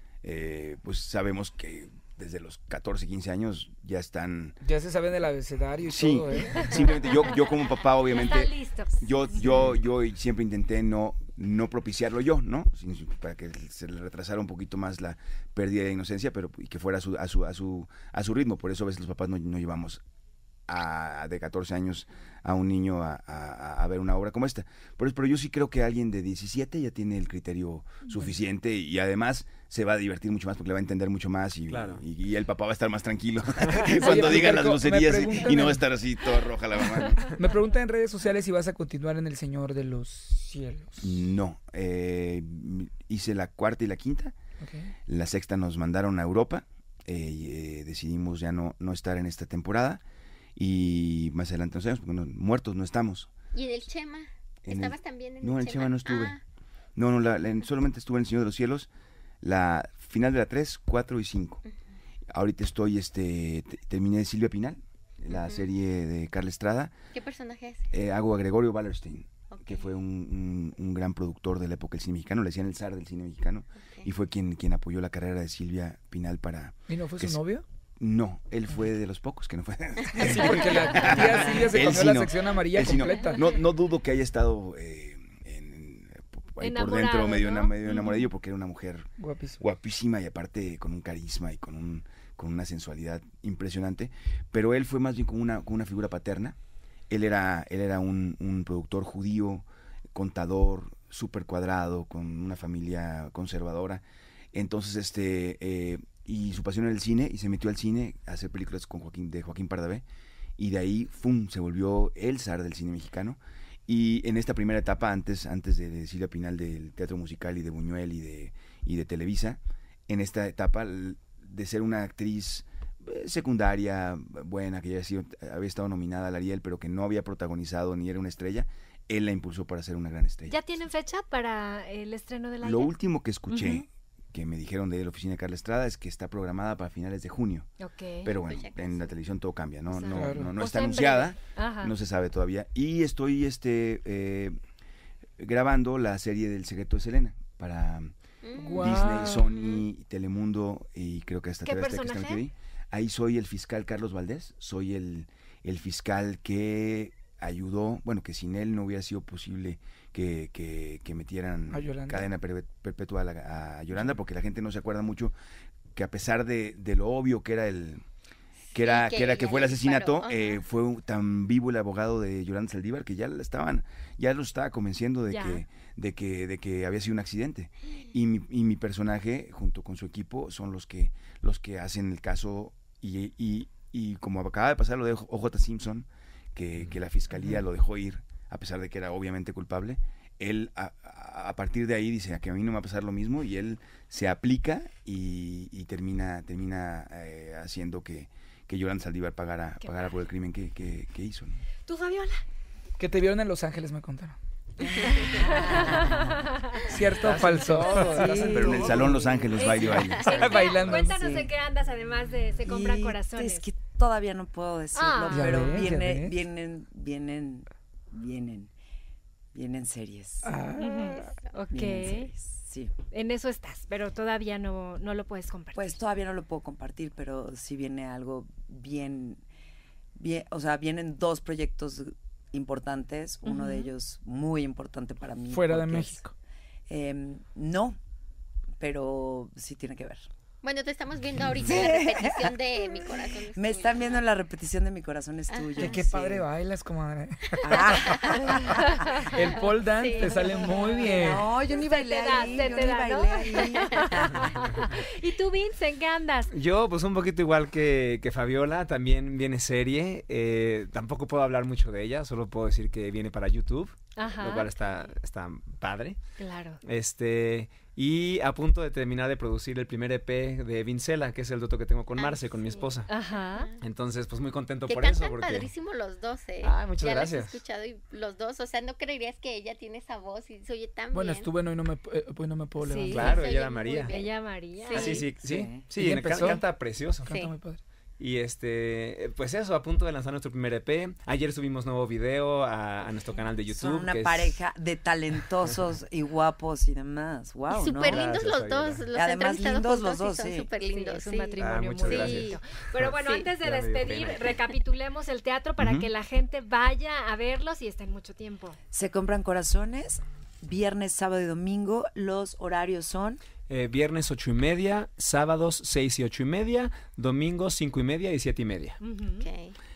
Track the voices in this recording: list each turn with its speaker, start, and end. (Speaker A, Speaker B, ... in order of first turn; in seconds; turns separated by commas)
Speaker A: 0.2-4.6, Speaker B: 4.6-7.1, Speaker A: 5.9-20.0, Speaker C: 6.5-6.9, Speaker C: 8.1-9.0, Speaker A: 20.7-37.4, Speaker D: 31.7-32.0, Speaker D: 33.6-34.5, Speaker B: 33.9-35.8, Speaker B: 37.2-41.2, Speaker A: 41.0-44.4, Speaker B: 44.6-44.9, Speaker A: 45.1-50.0, Speaker A: 50.5-53.3, Speaker E: 53.5-56.4, Speaker A: 54.6-56.4, Speaker A: 57.0-58.9, Speaker A: 59.4-61.6, Speaker A: 62.3-67.0, Speaker E: 65.3-65.7, Speaker E: 67.1-67.9, Speaker A: 67.9-77.4, Speaker E: 69.5-69.9, Speaker B: 76.9-77.6, Speaker A: 78.0-96.6, Speaker B: 80.1-83.4, Speaker C: 86.6-88.0, Speaker B: 89.2-89.6, Speaker A: 97.1-104.0, Speaker A: 104.5-110.0, Speaker A: 110.6-130.6, Speaker C: 130.5-132.9, Speaker A: 132.6-137.7, Speaker C: 133.5-133.8, Speaker C: 137.8-138.3, Speaker A: 138.2-144.6, Speaker E: 138.4-139.1, Speaker C: 139.9-141.9, Speaker B: 140.1-140.5, Speaker A: 145.4-148.1, Speaker E: 148.4-149.8, Speaker B: 148.6-149.4, Speaker A: 148.7-165.3, Speaker C: 151.7-152.4, Speaker B: 161.7-162.3, Speaker A: 165.9-168.0, Speaker A: 168.7-201.6, Speaker E: 168.7-170.6, Speaker C: 175.3-175.6, Speaker C: 201.9-202.4, Speaker B: 203.0-206.2, Speaker F: 205.0-206.3, Speaker C: 205.3-206.8, Speaker B: 206.8-209.2, Speaker D: 207.1-208.6, Speaker F: 207.3-209.5, Speaker A: 208.5-210.3, Speaker C: 209.6-213.7, Speaker B: 209.8-211.2, Speaker F: 211.0-211.5, Speaker F: 212.6-218.7, Speaker C: 214.9-215.7, Speaker B: 215.3-216.3, Speaker F: 219.5-220.6, Speaker B: 220.4-221.3, Speaker C: 220.8-222.3, Speaker F: 221.7-222.9, Speaker C: 223.1-226.0, Speaker F: 225.7-229.4, Speaker F: 230.2-236.2, Speaker C: 233.4-233.9, Speaker B: 235.5-236.3, Speaker F: 236.9-238.0, Speaker F: 238.8-240.3, Speaker E: 240.6-244.2, Speaker F: 241.6-246.5, Speaker E: 245.5-246.0, Speaker B: 245.8-251.5, Speaker F: 247.6-249.0, Speaker E: 247.8-248.2, Speaker C: 248.6-249.3, Speaker E: 249.4-251.3, Speaker F: 250.9-254.8, Speaker C: 251.7-256.5, Speaker E: 252.5-252.7, Speaker D: 256.5-266.2, Speaker C: 264.2-264.7, Speaker C: 266.4-266.8, Speaker D: 266.8-273.1, Speaker E: 272.2-273.8, Speaker C: 273.1-273.7, Speaker D: 273.8-275.7, Speaker E: 274.9-281.5, Speaker D: 276.6-277.6, Speaker B: 281.1-283.4, Speaker C: 282.8-283.3, Speaker D: 283.1-284.1, Speaker E: 283.1-285.3, Speaker C: 284.1-285.2, Speaker D: 284.9-287.3, Speaker F: 285.4-285.8, Speaker B: 285.9-286.7, Speaker B: 287.2-287.8, Speaker E: 287.3-287.6, Speaker D: 288.2-294.6, Speaker F: 293.7-298.2, Speaker E: 297.7-302.6, Speaker D: 298.0-299.0, Speaker F: 299.1-300.7, Speaker C: 300.9-308.8, Speaker D: 301.6-304.5, Speaker E: 303.1-303.5, Speaker A: 305.8-306.1, Speaker F: 308.9-313.4, Speaker D: 313.7-319.0, Speaker C: 319.0-319.5, Speaker E: 319.4-319.8